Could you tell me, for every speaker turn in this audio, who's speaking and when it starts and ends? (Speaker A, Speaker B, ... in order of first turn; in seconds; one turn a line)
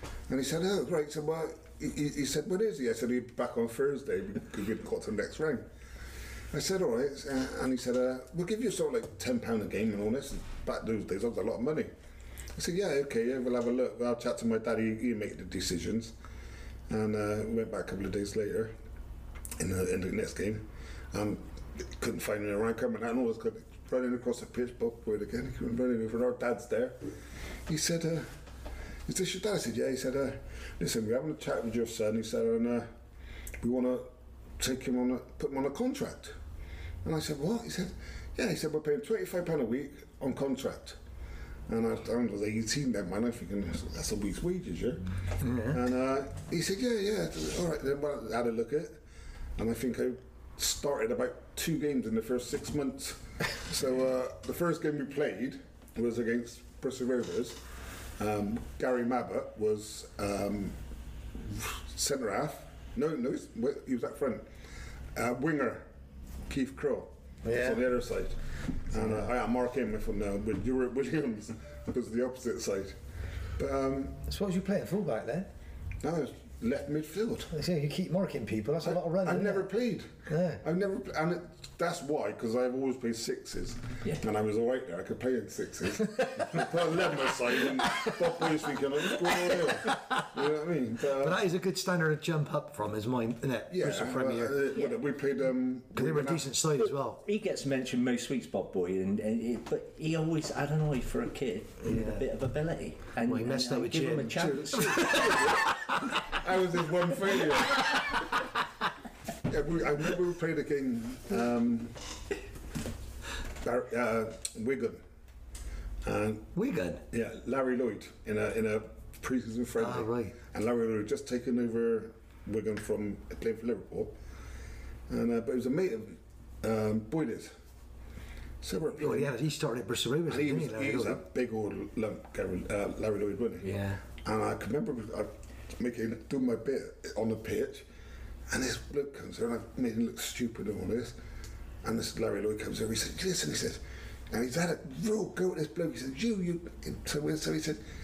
Speaker A: 0.3-5.7
Speaker A: 6.5-11.9
Speaker A: 12.6-16.1
Speaker A: 16.9-18.7
Speaker A: 19.6-27.0
Speaker A: 27.7-28.3
Speaker A: 29.1-32.9
Speaker A: 33.6-36.4
Speaker A: 37.0-41.0
Speaker A: 41.7-45.0
Speaker B: 45.4-45.8
Speaker A: 45.6-49.0
Speaker A: 49.6-57.6
Speaker A: 58.2-60.8
Speaker A: 61.4-64.5
Speaker A: 65.2-65.9
Speaker A: 66.5-68.4
Speaker B: 67.4-67.8
Speaker A: 68.9-73.0
Speaker A: 73.6-74.2
Speaker B: 74.3-75.5
Speaker A: 76.0-77.5
Speaker B: 77.5-79.7
Speaker A: 78.8-80.1
Speaker B: 80.3-80.6
Speaker A: 80.6-91.4
Speaker B: 89.9-90.2
Speaker B: 91.2-94.6
Speaker A: 93.7-96.5
Speaker C: 94.7-95.0
Speaker B: 96.0-97.2
Speaker C: 97.2-105.4
Speaker B: 101.8-102.3
Speaker B: 103.2-105.6
Speaker A: 104.4-108.1
Speaker A: 109.5-112.0
Speaker A: 113.6-115.0
Speaker A: 116.0-116.5
Speaker B: 116.5-117.0
Speaker A: 117.1-124.1
Speaker B: 119.8-120.3
Speaker A: 125.1-127.5
Speaker A: 128.6-129.3
Speaker B: 128.9-131.2
Speaker A: 130.3-133.7
Speaker B: 133.6-134.0
Speaker A: 134.2-137.9
Speaker A: 138.5-141.2
Speaker A: 141.8-147.8